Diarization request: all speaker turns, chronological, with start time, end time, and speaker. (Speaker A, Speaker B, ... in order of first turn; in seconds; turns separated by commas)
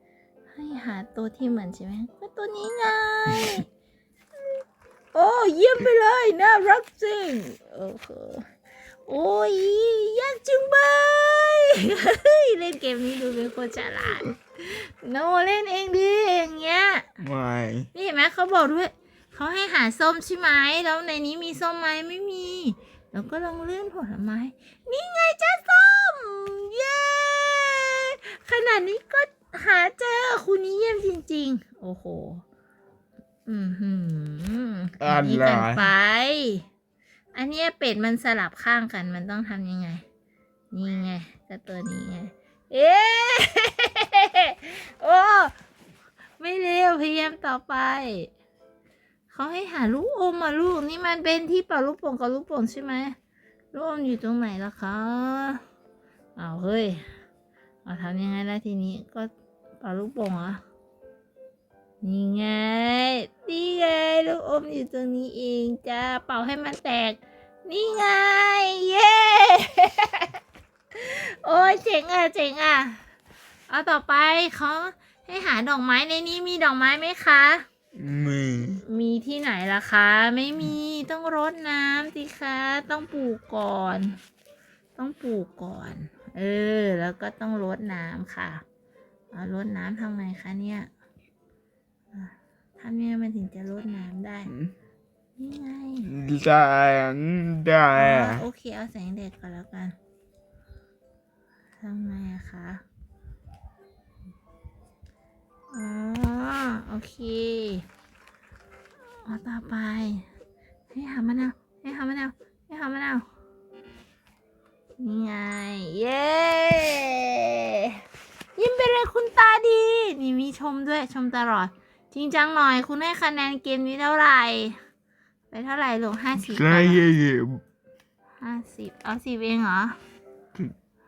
Speaker A: 0.5-3.7, Speaker A: 5.1-8.5, Speaker A: 9.1-17.1, Speaker B: 17.2-17.9, Speaker A: 17.9-32.4, Speaker A: 33.5-36.7, Speaker B: 35.0-35.9, Speaker A: 37.4-40.0, Speaker A: 40.7-45.5, Speaker A: 46.4-48.3, Speaker A: 49.3-53.2, Speaker A: 53.7-55.6, Speaker A: 56.4-57.1, Speaker A: 57.9-60.6, Speaker A: 62.0-70.4, Speaker A: 70.9-73.0, Speaker A: 73.7-77.7, Speaker B: 78.0-78.8, Speaker A: 78.9-84.2, Speaker A: 85.0-88.6, Speaker A: 89.3-90.9, Speaker A: 92.1-94.5, Speaker A: 95.4-96.1, Speaker B: 96.0-98.5, Speaker A: 98.0-100.0, Speaker A: 101.8-102.8, Speaker A: 105.7-107.9, Speaker A: 109.2-110.3, Speaker A: 110.9-113.2, Speaker A: 115.0-118.0, Speaker A: 118.6-124.8, Speaker A: 125.5-127.0, Speaker B: 126.4-127.6, Speaker A: 128.4-130.0